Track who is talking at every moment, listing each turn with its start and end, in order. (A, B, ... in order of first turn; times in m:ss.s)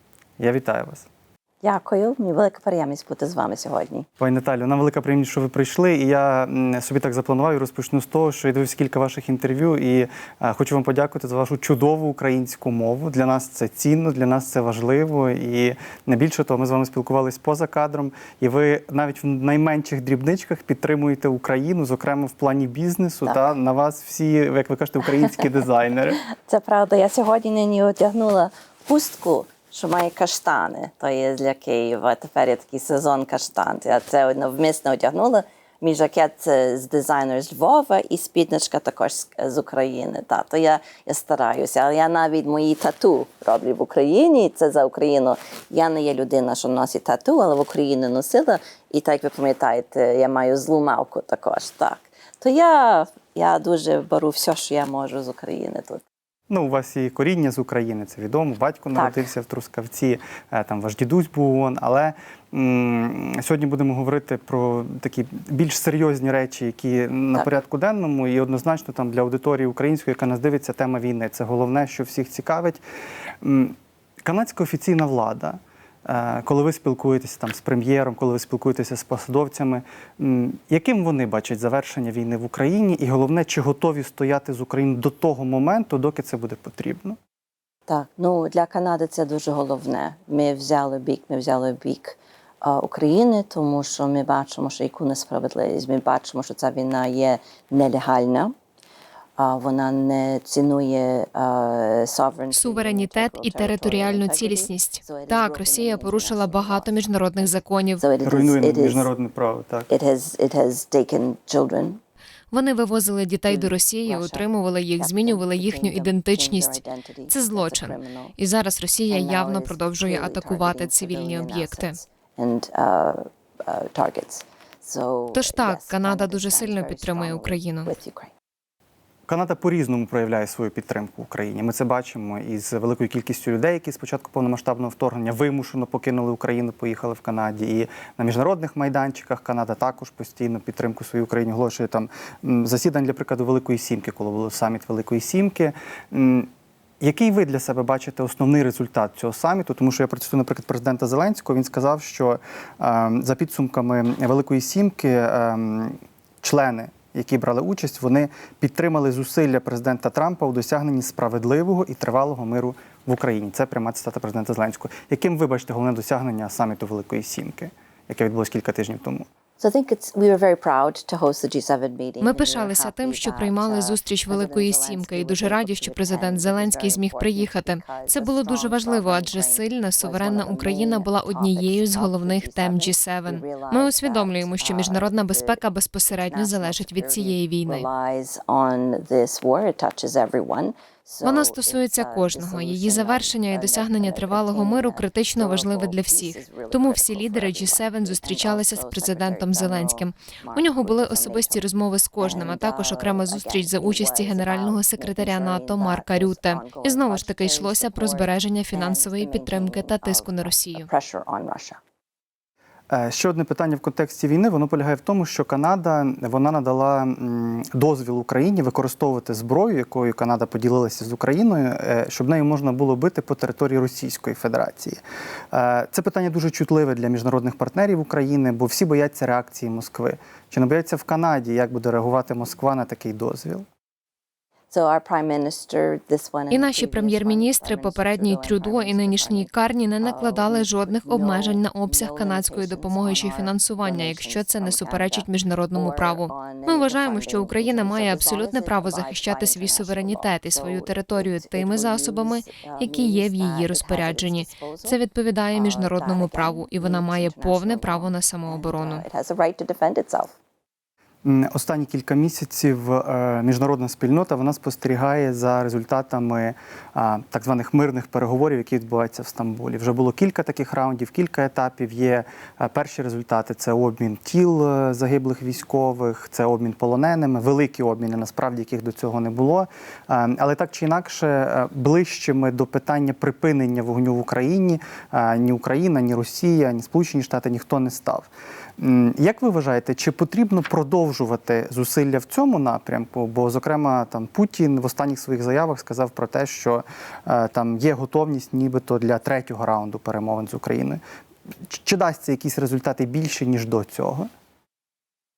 0:00.4-0:01.1 A
0:01.6-0:04.1 B
0:04.2-0:26.2 A
0:26.3-0:56.0 B
0:56.5-1:12.8 A
0:58.9-0:59.2 B
1:13.4-1:27.2 A
1:27.9-1:38.5 B
1:39.4-1:47.4 B
1:42.5-1:48.0 C
1:48.0-1:49.1 B
1:48.2-1:49.9 A
1:49.9-1:52.0 B
1:52.5-2:02.0 C
1:53.5-1:58.3 B
1:59.1-2:08.3 B
2:05.3-2:07.9 C
2:09.3-2:26.5 A
2:27.0-2:49.2 A
2:49.6-3:05.6 B
2:52.2-3:07.9 C
3:06.2-3:21.6 B
3:11.2-3:30.9 C
3:22.2-3:31.8 B
3:32.9-3:45.0 A
3:45.5-3:53.6 A
3:54.7-4:15.0 B
3:56.5-4:19.0 C
4:15.5-4:20.3 B
4:21.2-4:48.3 A
4:48.8-5:01.0 A
5:01.7-5:04.3 A